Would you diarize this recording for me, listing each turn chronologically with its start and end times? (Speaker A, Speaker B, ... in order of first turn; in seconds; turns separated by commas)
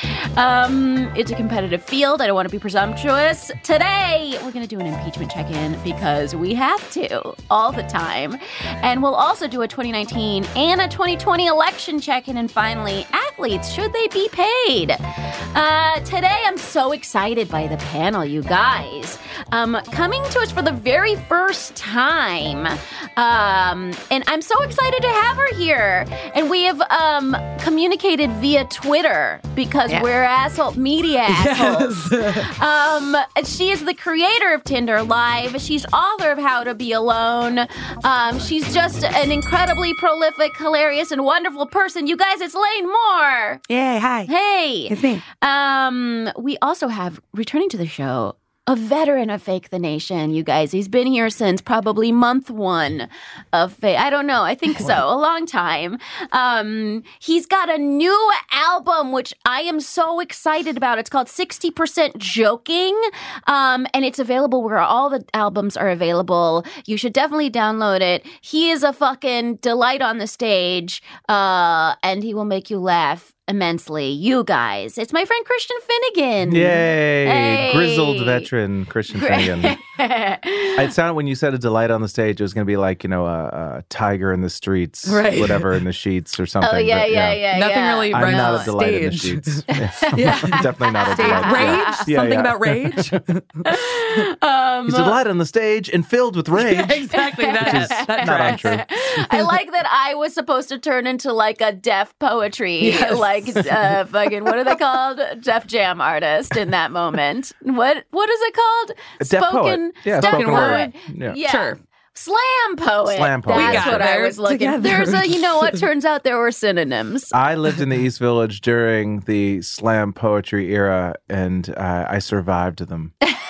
Speaker A: 0.3-15.0, Speaker A: 15.5-43.6, Speaker B: 31.3-32.5, Speaker B: 43.7-44.3, Speaker A: 44.3-78.5, Speaker B: 44.9-45.2, Speaker C: 76.5-79.8, Speaker A: 79.1-80.9, Speaker C: 80.8-87.5, Speaker B: 85.0-85.7, Speaker A: 86.6-88.7, Speaker B: 87.5-94.2, Speaker C: 88.1-93.2, Speaker A: 89.7-92.1, Speaker A: 93.7-95.2, Speaker C: 94.8-97.0, Speaker B: 96.6-98.8, Speaker A: 97.1-117.3, Speaker C: 97.6-98.8, Speaker B: 102.8-103.7, Speaker C: 109.2-111.4, Speaker B: 110.2-110.9, Speaker B: 111.4-111.8, Speaker C: 113.1-114.0, Speaker B: 113.5-115.8, Speaker C: 117.3-123.1